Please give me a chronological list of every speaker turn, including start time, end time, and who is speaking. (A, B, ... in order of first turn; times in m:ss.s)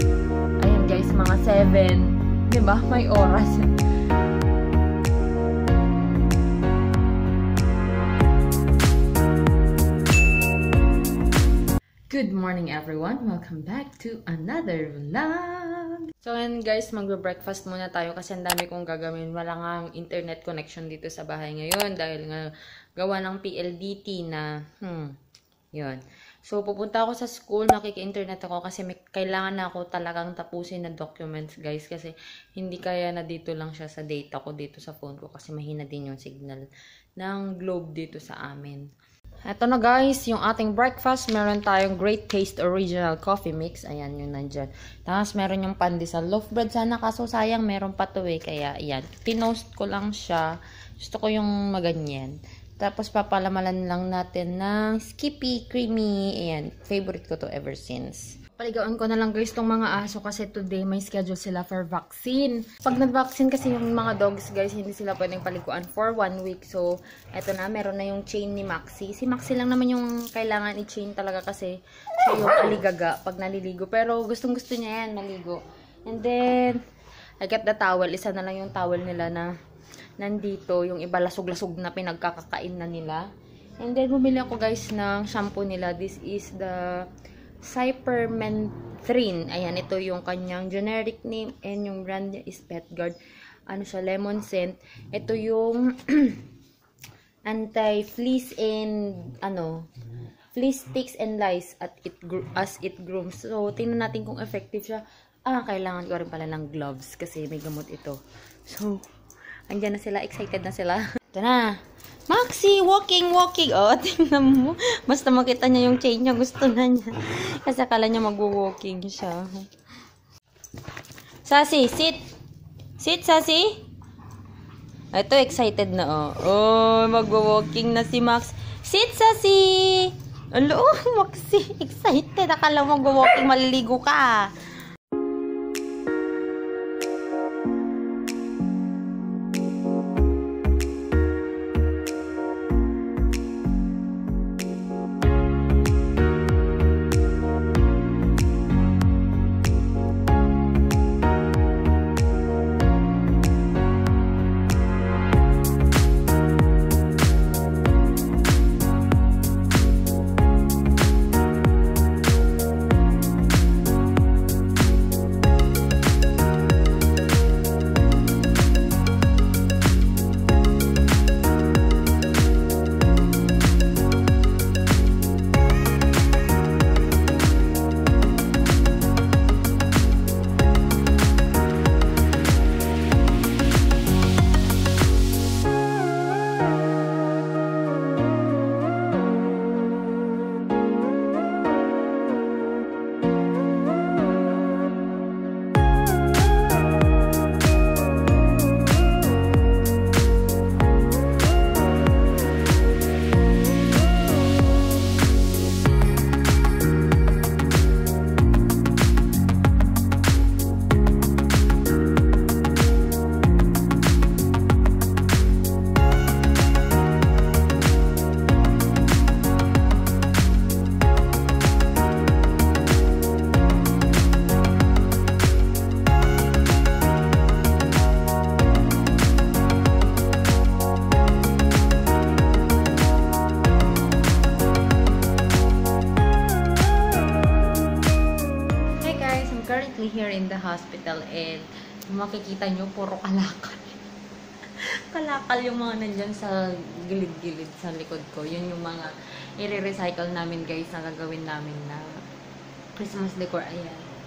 0:00.6-0:03.7 A
0:12.1-0:25.1 A
0:25.7-0:36.7 A
0:37.2-0:38.9 A
0:39.4-1:16.8 A
1:17.4-1:19.5 A
1:20.2-1:23.3 A
1:23.8-1:27.1 A
1:27.6-1:33.2 A
1:33.7-1:36.5 A
1:37.5-1:39.9 A
1:40.5-1:49.0 A
1:49.7-1:59.7 A
2:01.4-2:02.2 A
2:03.0-2:03.8 A
2:05.1-2:14.5 A
3:59.0-4:04.0 A
4:05.1-4:12.1 A
4:13.0-4:14.0 A